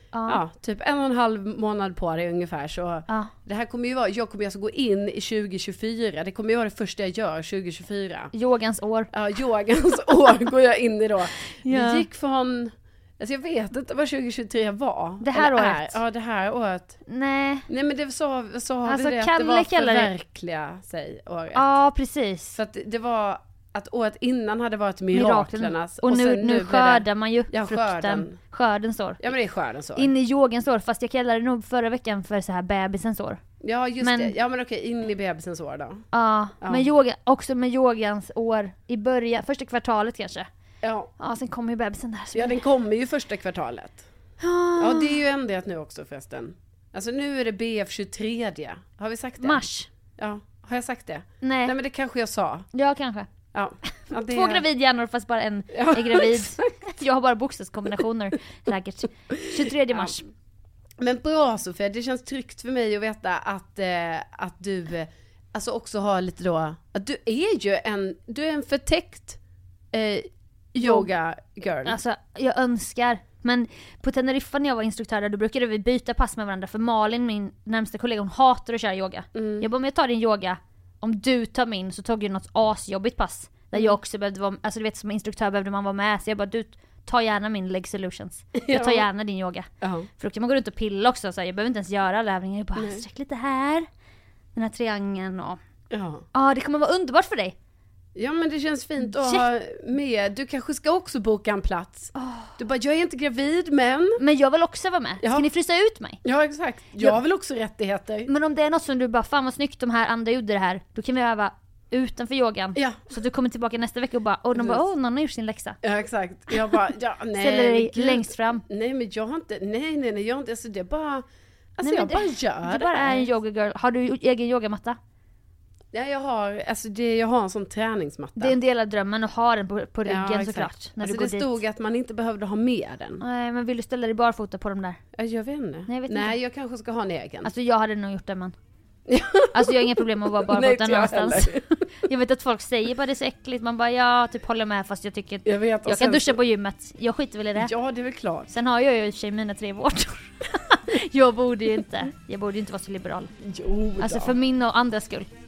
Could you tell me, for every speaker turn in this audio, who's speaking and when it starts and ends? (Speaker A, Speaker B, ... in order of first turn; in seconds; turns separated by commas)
Speaker A: 0.1-0.4, Speaker B: 0.3-8.3, Speaker A: 8.3-9.1, Speaker B: 9.1-17.0, Speaker A: 11.5-12.1, Speaker A: 15.2-16.0, Speaker A: 17.1-17.7, Speaker B: 17.7-21.7, Speaker A: 18.8-20.1, Speaker A: 21.5-22.6, Speaker B: 22.5-28.4, Speaker A: 25.1-29.2, Speaker B: 29.2-30.1, Speaker A: 29.9-33.4, Speaker B: 33.6-36.0, Speaker A: 34.0-34.3, Speaker A: 36.1-40.5, Speaker B: 36.6-36.9, Speaker B: 40.8-41.1, Speaker A: 41.2-42.6, Speaker B: 42.3-44.0, Speaker A: 44.4-45.2, Speaker B: 44.8-49.6, Speaker A: 49.4-49.9, Speaker B: 50.2-52.7, Speaker A: 51.4-51.8, Speaker A: 52.7-53.3, Speaker B: 53.5-54.6, Speaker A: 54.1-60.3, Speaker B: 55.7-56.6, Speaker B: 59.5-60.1, Speaker B: 61.0-69.4, Speaker B: 69.9-72.0, Speaker A: 70.8-71.1, Speaker A: 71.8-93.8, Speaker B: 79.3-79.7, Speaker B: 83.7-84.0, Speaker B: 88.6-89.1, Speaker B: 89.8-90.1, Speaker B: 92.7-93.0, Speaker A: 94.5-95.6, Speaker B: 95.9-96.2, Speaker A: 96.3-97.5, Speaker B: 98.1-104.2, Speaker A: 99.0-99.5, Speaker A: 102.1-102.6, Speaker A: 104.2-106.2, Speaker B: 105.2-105.5, Speaker B: 106.2-108.3, Speaker A: 108.3-115.8, Speaker B: 112.7-113.1, Speaker B: 114.5-114.8, Speaker B: 115.8-121.2, Speaker A: 117.3-118.6, Speaker B: 121.8-123.3, Speaker A: 121.8-125.0, Speaker B: 125.9-128.6, Speaker A: 128.4-131.6, Speaker B: 130.0-133.2, Speaker A: 133.2-135.0, Speaker B: 135.1-137.5, Speaker A: 135.9-136.4, Speaker A: 137.4-138.5, Speaker B: 139.1-139.8, Speaker A: 139.5-147.7, Speaker B: 140.5-141.7, Speaker B: 145.4-146.4, Speaker B: 147.6-148.5, Speaker A: 148.5-153.3, Speaker B: 153.4-154.3, Speaker A: 154.0-155.3